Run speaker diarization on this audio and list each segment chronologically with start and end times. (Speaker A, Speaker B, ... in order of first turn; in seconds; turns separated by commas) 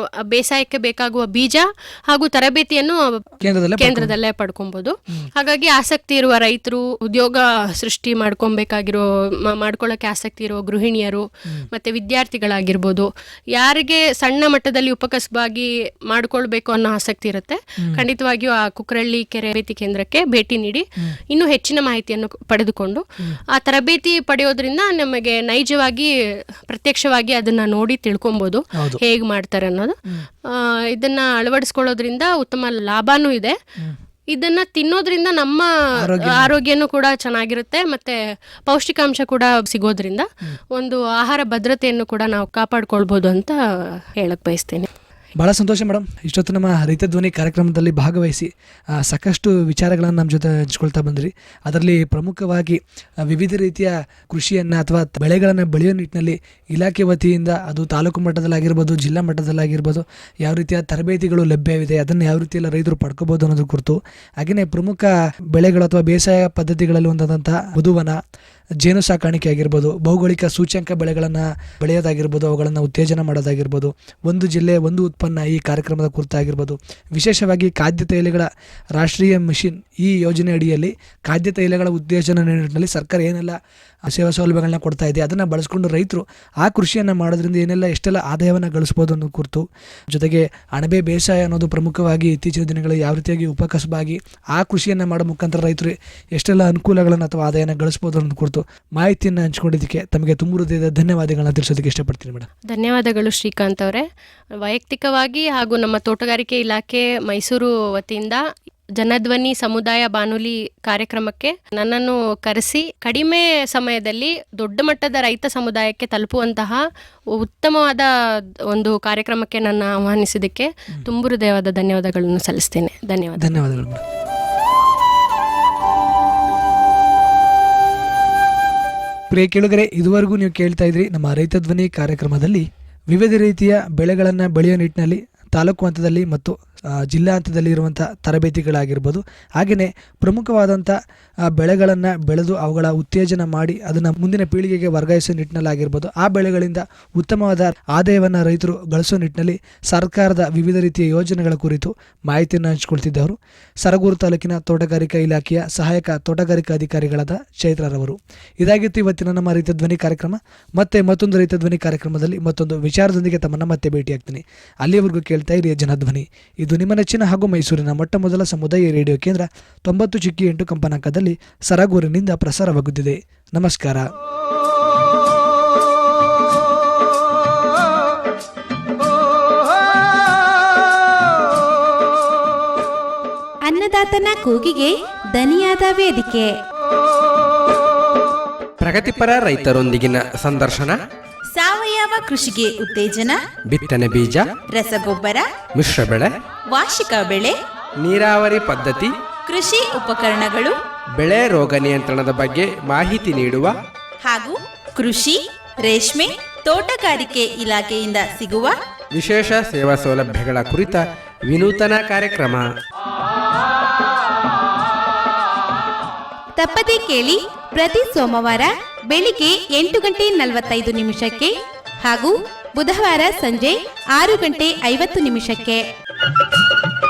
Speaker A: 0.3-3.2, Speaker B: 3.4-4.1, Speaker A: 3.8-26.1, Speaker A: 26.7-33.5, Speaker B: 28.7-29.0, Speaker A: 34.3-44.9, Speaker B: 36.0-36.5, Speaker B: 45.4-68.2, Speaker B: 68.8-102.5, Speaker A: 102.7-104.1, Speaker A: 104.6-108.4, Speaker A: 109.0-116.8, Speaker A: 117.3-118.1, Speaker A: 118.7-123.5, Speaker B: 123.4-124.0, Speaker B: 129.3-141.0, Speaker B: 141.5-174.1, Speaker C: 183.7-186.5, Speaker D: 188.8-191.0, Speaker E: 191.5-193.4, Speaker D: 193.7-194.5, Speaker E: 194.7-195.5, Speaker D: 195.7-196.3, Speaker E: 196.7-197.6, Speaker D: 198.0-199.1, Speaker E: 199.5-200.8, Speaker D: 201.2-203.7, Speaker E: 204.2-208.8, Speaker D: 209.1-212.6, Speaker C: 216.6-225.8